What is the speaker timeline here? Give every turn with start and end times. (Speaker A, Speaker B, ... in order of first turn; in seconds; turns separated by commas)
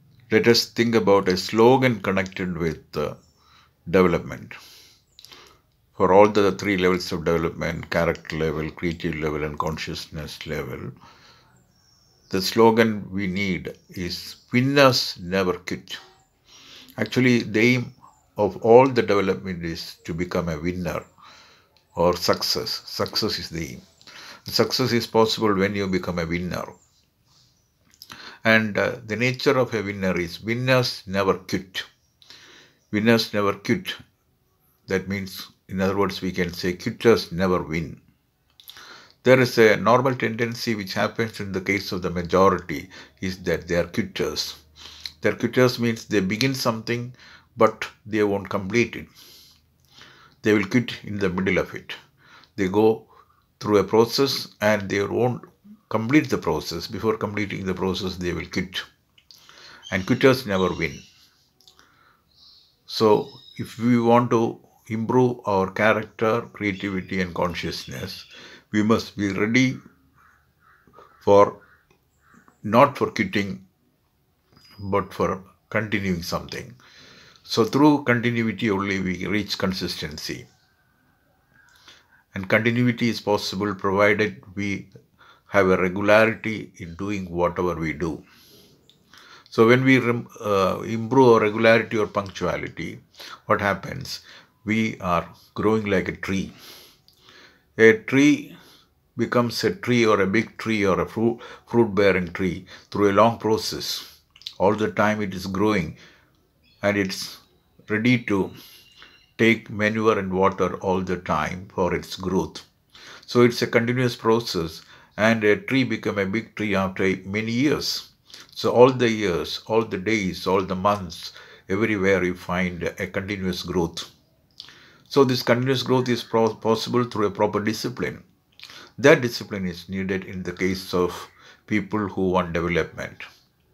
Speaker A: 0.3-3.1, Speaker A: 3.9-4.6, Speaker A: 6.0-10.9, Speaker A: 12.3-16.0, Speaker A: 17.0-21.1, Speaker A: 21.9-23.8, Speaker A: 24.5-26.8, Speaker A: 28.4-31.9, Speaker A: 32.9-34.0, Speaker A: 34.9-38.0, Speaker A: 39.2-44.6, Speaker A: 45.2-49.1, Speaker A: 50.4-52.0, Speaker A: 52.6-53.0, Speaker A: 53.6-58.9, Speaker A: 59.9-61.0, Speaker A: 62.9-69.8, Speaker A: 71.2-71.6, Speaker A: 72.7-73.6, Speaker A: 74.8-76.8, Speaker A: 77.5-80.5, Speaker A: 82.3-84.9, Speaker A: 85.5-88.2, Speaker A: 89.5-96.5, Speaker A: 97.8-98.5, Speaker A: 99.2-106.0, Speaker A: 106.8-108.5, Speaker A: 109.4-112.7, Speaker A: 113.2-124.1, Speaker A: 125.1-128.2, Speaker A: 129.0-133.3